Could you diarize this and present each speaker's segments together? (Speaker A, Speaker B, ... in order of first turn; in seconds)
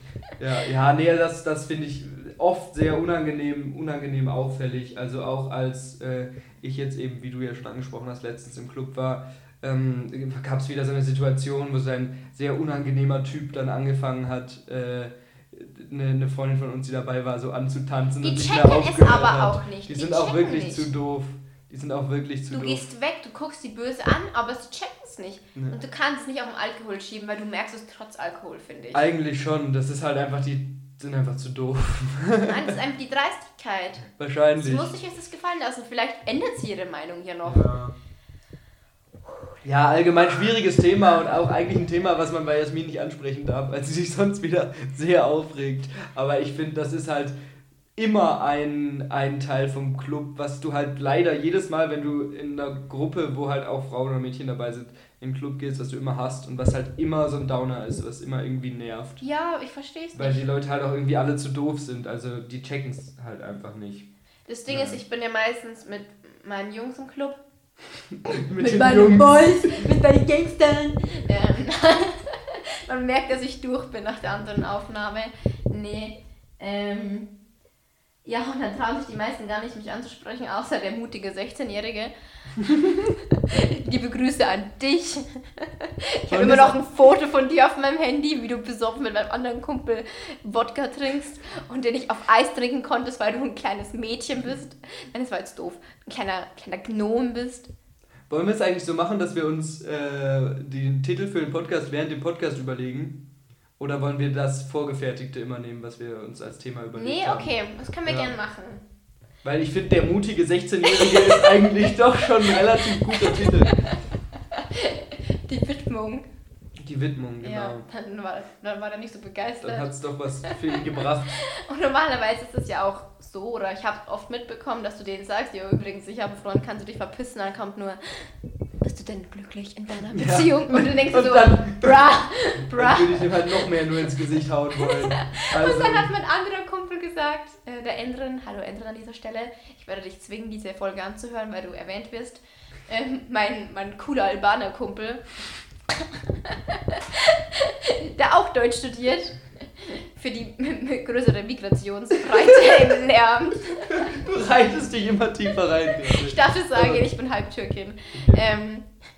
Speaker A: 0.4-22.8, 28.9-32.7, 34.1-34.9, 37.4-37.9, 39.6-47.3, 48.0-59.2, 60.1-64.1, 64.7-65.0, 68.2-69.8, 86.3-86.8, 98.3-103.2, 103.8-107.5, 108.0-108.3, 109.4-113.9, 116.8-117.8, 119.6-121.4, 130.1-136.1, 152.3-152.8, 153.9-157.1, 158.1-158.4
Speaker B: 18.2-20.9, 22.5-29.1, 32.4-37.7, 59.2-60.4, 64.5-67.4, 68.6-77.3, 78.2-97.7, 106.9-108.8, 110.8-111.7, 112.4-113.9, 114.5-116.3, 117.4-119.9, 120.4-128.3, 128.8-133.7, 134.8-145.2, 146.0-154.2, 156.1-158.9